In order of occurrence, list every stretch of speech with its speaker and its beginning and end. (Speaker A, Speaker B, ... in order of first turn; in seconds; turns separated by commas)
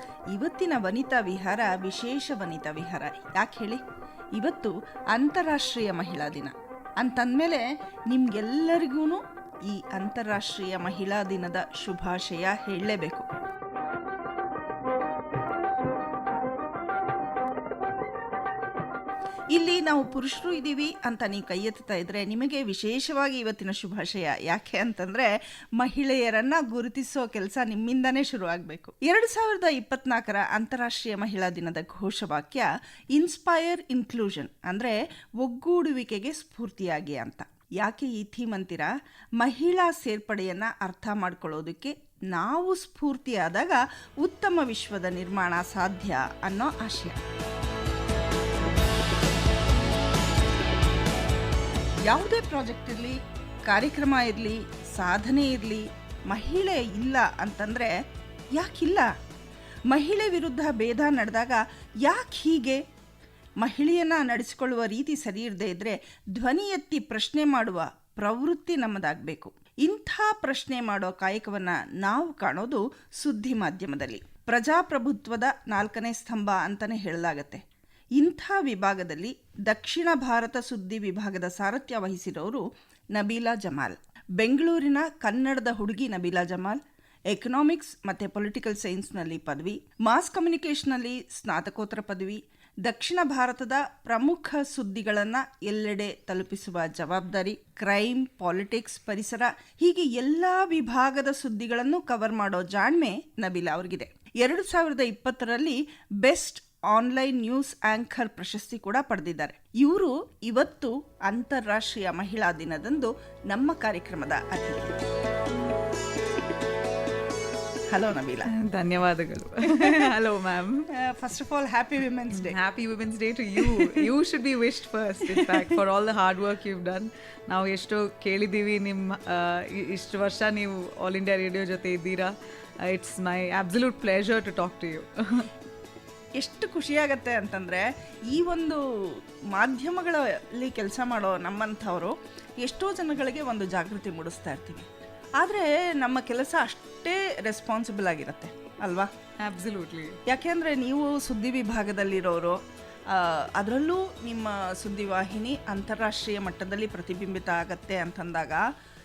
Speaker A: 0.3-3.8, Speaker A: 4.3-13.3, Speaker A: 19.5-47.2, Speaker A: 52.0-58.0, Speaker A: 58.5-59.1, Speaker A: 59.9-62.8, Speaker A: 63.6-77.6, Speaker A: 78.2-115.0, Speaker A: 117.9-118.5, Speaker B: 118.5-120.9, Speaker A: 119.7-120.1, Speaker A: 120.9-122.6, Speaker B: 122.3-135.5, Speaker A: 123.6-124.1, Speaker A: 125.3-125.8, Speaker A: 136.4-149.1, Speaker B: 149.4-150.2, Speaker A: 150.3-158.6